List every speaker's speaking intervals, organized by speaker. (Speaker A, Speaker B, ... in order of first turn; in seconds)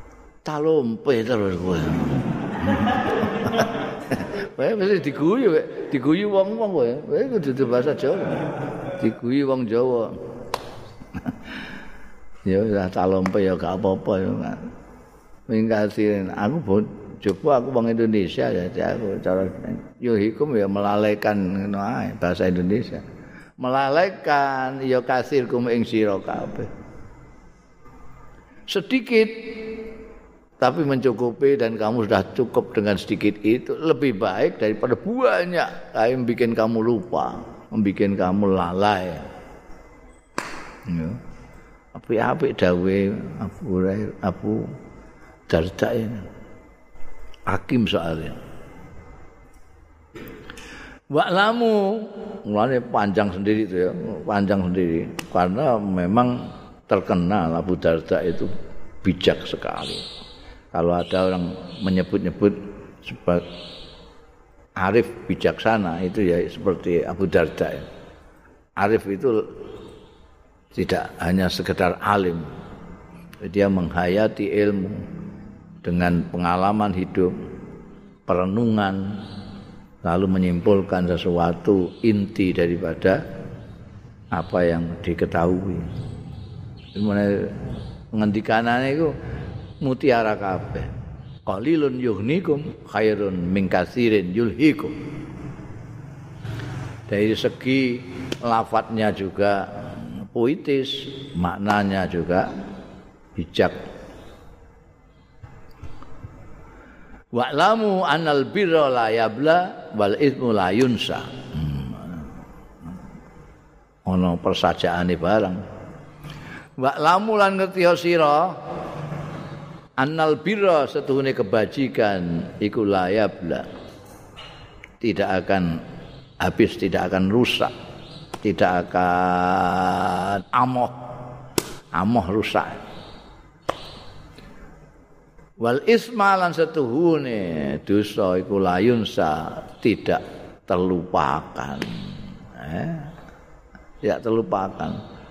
Speaker A: 0.4-10.1, 12.4-14.7, 15.5-23.0, 23.6-26.7, 28.7-29.8, 30.6-39.2, 40.9-41.2, 41.9-44.6, 45.5-46.2, 47.5-48.4, 51.1-58.5, 59.0-60.0, 60.7-63.4, 64.8-67.8, 68.8-69.4, 70.7-72.5, 73.4-75.0, 75.8-77.3, 78.3-79.2, 80.0-83.2, 84.3-85.9, 86.9-87.5, 88.1-89.1, 89.8-90.9, 91.5-94.9, 97.1-99.7, 100.3-102.5, 103.3-103.8, 107.3-112.2, 114.0-115.6, 116.8-118.6, 120.0-123.7, 125.0-125.8, 126.4-127.7, 128.4-131.0, 131.9-132.8, 135.6-143.1, 144.0-145.0